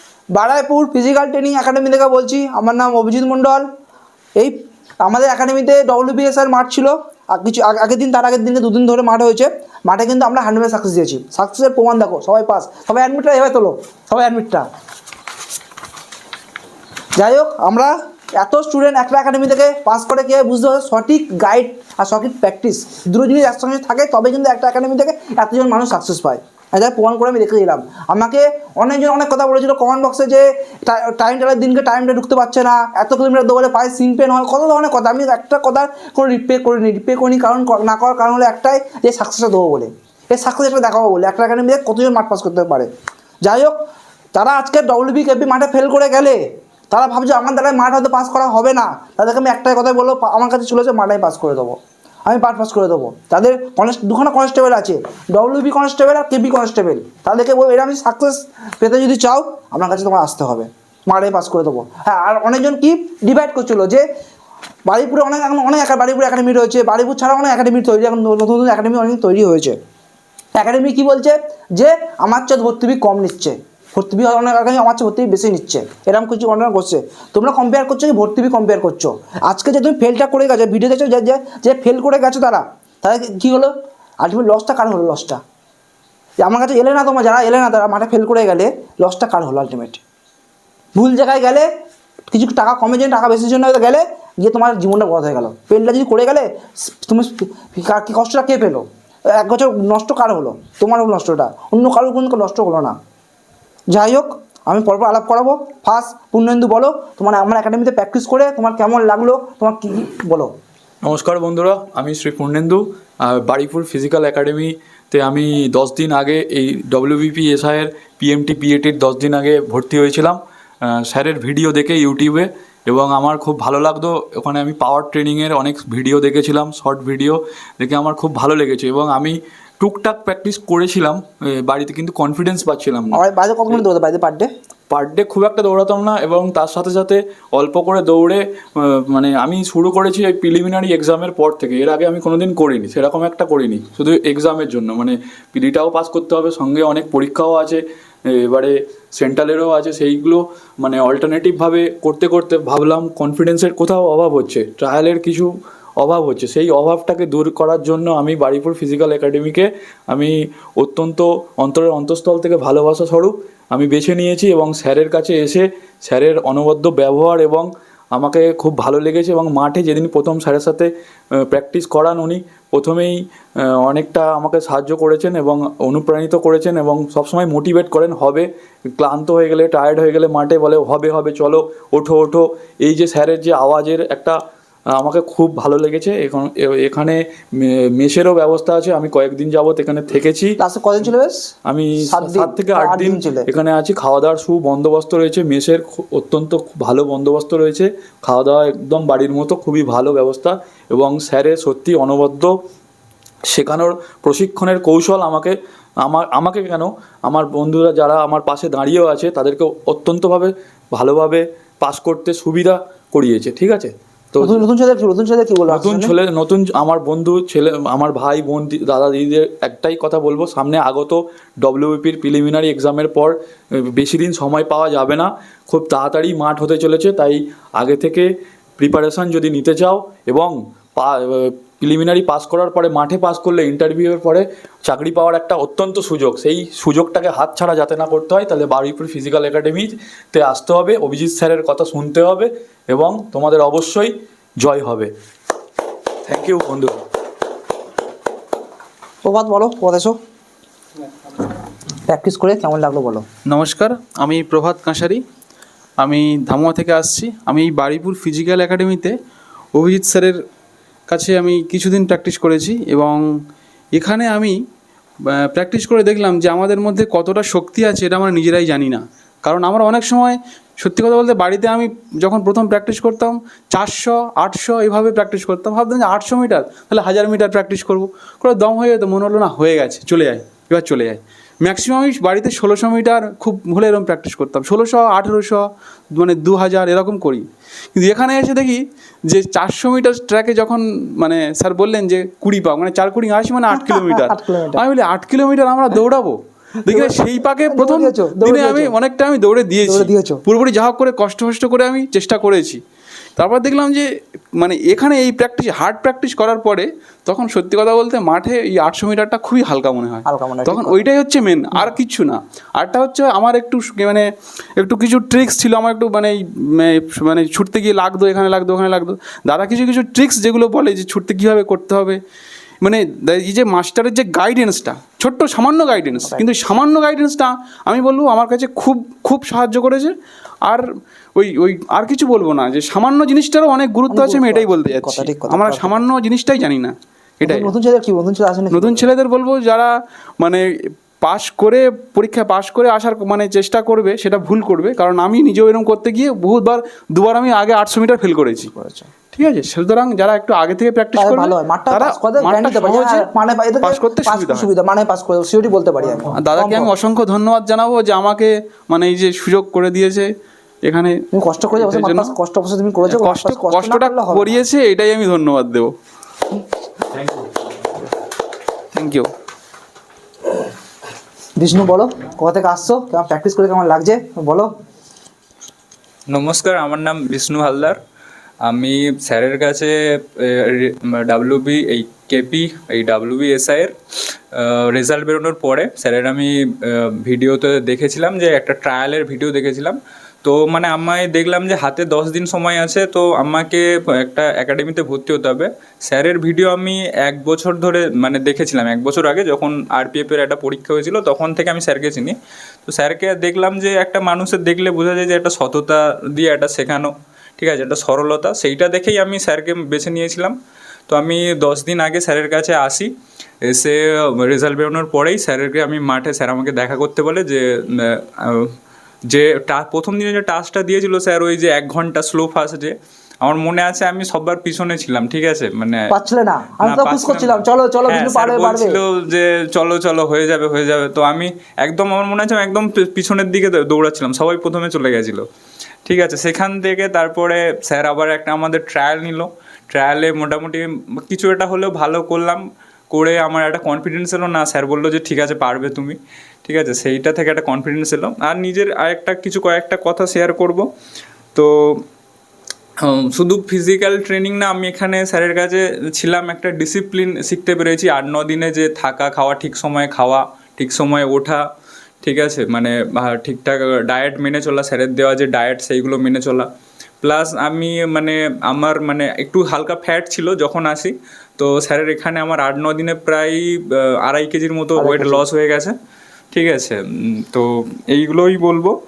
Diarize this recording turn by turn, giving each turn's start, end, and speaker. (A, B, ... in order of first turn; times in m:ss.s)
0:00.3-0:03.6 A
0:04.4-0:14.7 A
0:17.2-0:42.9 A
0:43.4-0:43.8 A
0:44.4-1:04.1 A
1:04.9-1:09.8 A
1:10.6-1:25.4 A
1:26.4-1:30.0 A
1:31.0-1:31.7 A
1:32.3-1:43.0 A
1:43.9-1:50.5 A
1:51.0-2:13.2 B
2:13.1-2:14.5 A
2:14.9-3:04.4 B
3:04.9-3:10.6 B
3:10.6-3:11.5 A
3:11.6-3:22.6 B
3:12.1-3:13.5 A
3:23.5-3:34.6 B
3:34.4-3:36.2 A
3:35.7-4:05.1 B
4:06.3-4:06.9 B
4:09.2-4:10.2 A
4:12.1-4:13.2 A
4:13.4-4:15.2 C
4:16.0-4:19.2 C
4:19.7-4:20.4 C
4:21.1-4:23.2 C
4:23.9-4:24.6 C
4:25.2-5:02.8 C
4:53.7-4:54.8 A
4:56.9-4:58.9 A
4:59.8-5:00.4 A
5:03.4-5:14.2 C
5:10.3-5:11.0 A
5:14.8-5:22.2 C
5:22.8-5:30.2 C
5:26.2-5:26.4 A
5:31.4-5:37.7 C
5:34.1-5:36.0 A
5:37.4-5:39.0 A
5:38.7-5:39.9 C
5:41.2-5:48.7 C
5:48.7-5:49.1 A
5:49.3-5:53.3 C
5:51.2-5:56.9 A
5:53.8-5:54.7 C
5:56.3-6:00.3 C
6:00.8-6:01.2 C
6:01.3-6:04.5 A
6:01.7-6:02.4 C
6:03.1-6:05.9 C
6:08.9-6:09.3 C
6:11.6-6:14.7 A
6:16.3-6:18.0 D
6:18.6-6:23.9 D
6:24.5-6:42.4 D
6:42.9-6:50.6 D
6:51.1-6:53.1 D
6:53.6-6:58.7 D
6:59.3-7:06.1 D
7:06.1-7:09.0 A
7:06.8-7:15.4 D
7:16.0-7:30.9 D
7:31.6-7:32.0 D
7:33.0-7:41.6 D
7:42.2-7:46.7 D
7:47.2-7:55.9 D
7:55.0-7:55.4 A
7:56.5-7:58.9 D